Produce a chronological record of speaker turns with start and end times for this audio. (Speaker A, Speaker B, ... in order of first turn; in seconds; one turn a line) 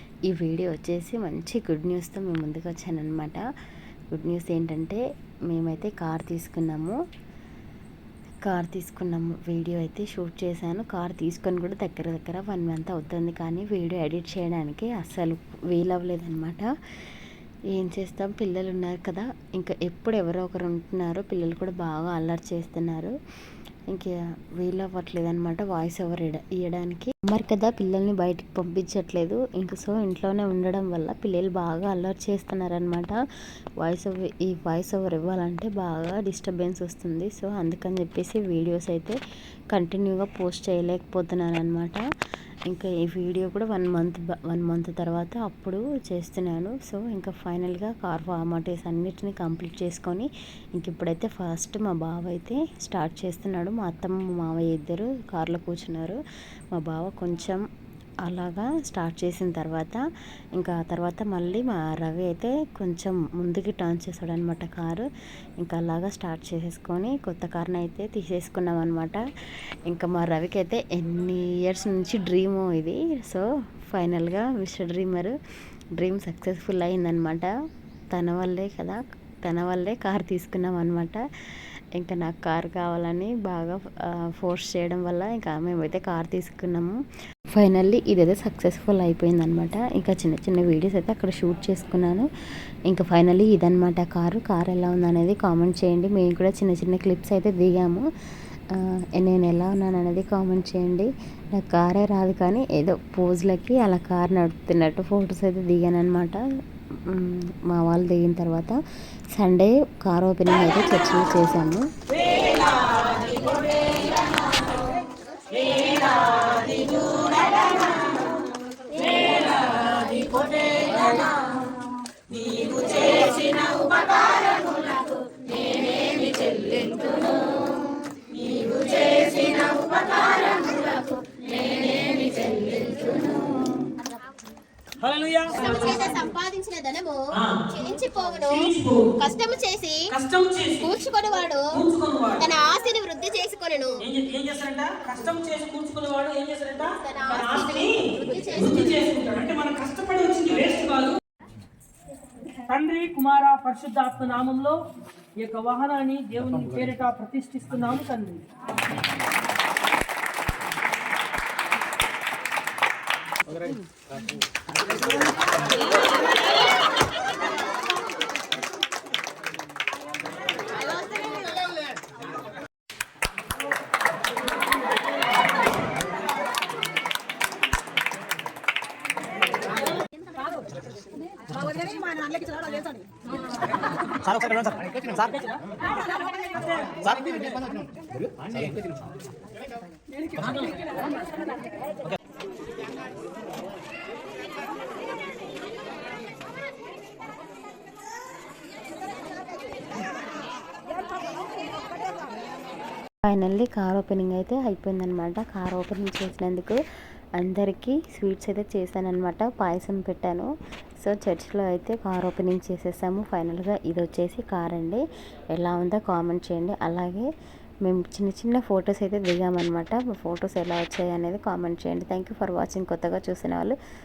Speaker A: 0.3-3.4
Speaker A: 4.2-7.0
Speaker A: 8.4-16.7
Speaker A: 17.7-23.1
Speaker A: 23.9-33.1
Speaker A: 33.8-39.2
Speaker A: 39.7-42.0
Speaker A: 42.7-56.2
Speaker A: 56.7-57.6
Speaker A: 58.2-60.0
Speaker A: 60.5-65.0
Speaker A: 65.6-69.2
Speaker A: 69.8-75.3
Speaker A: 76.0-77.5
Speaker A: 78.1-81.2
Speaker A: 82.0-87.0
Speaker A: 87.5-92.3
Speaker A: 92.9-98.0
Speaker A: 98.7-106.4
Speaker A: 107.1-108.8
Speaker A: 109.3-111.9
Speaker B: 112.2-114.1
Speaker B: 115.6-117.6
Speaker B: 118.9-121.3
Speaker B: 122.3-124.0
Speaker B: 126.1-127.1
Speaker B: 128.6-129.6
Speaker C: 129.7-131.0
Speaker C: 132.3-133.2
Speaker B: 132.5-132.9
Speaker B: 135.0-136.3
Speaker C: 135.5-140.1
Speaker B: 137.3-139.1
Speaker B: 140.1-140.9
Speaker C: 140.8-141.7
Speaker B: 141.7-142.5
Speaker C: 142.4-144.0
Speaker B: 144.0-151.2
Speaker C: 147.0-149.0
Speaker B: 152.7-154.8
Speaker B: 155.4-158.4
Speaker C: 170.8-171.7
Speaker B: 185.0-187.4
Speaker A: 203.3-206.8
Speaker A: 207.4-210.5
Speaker A: 211.0-215.0
Speaker A: 215.6-217.3
Speaker A: 217.8-223.7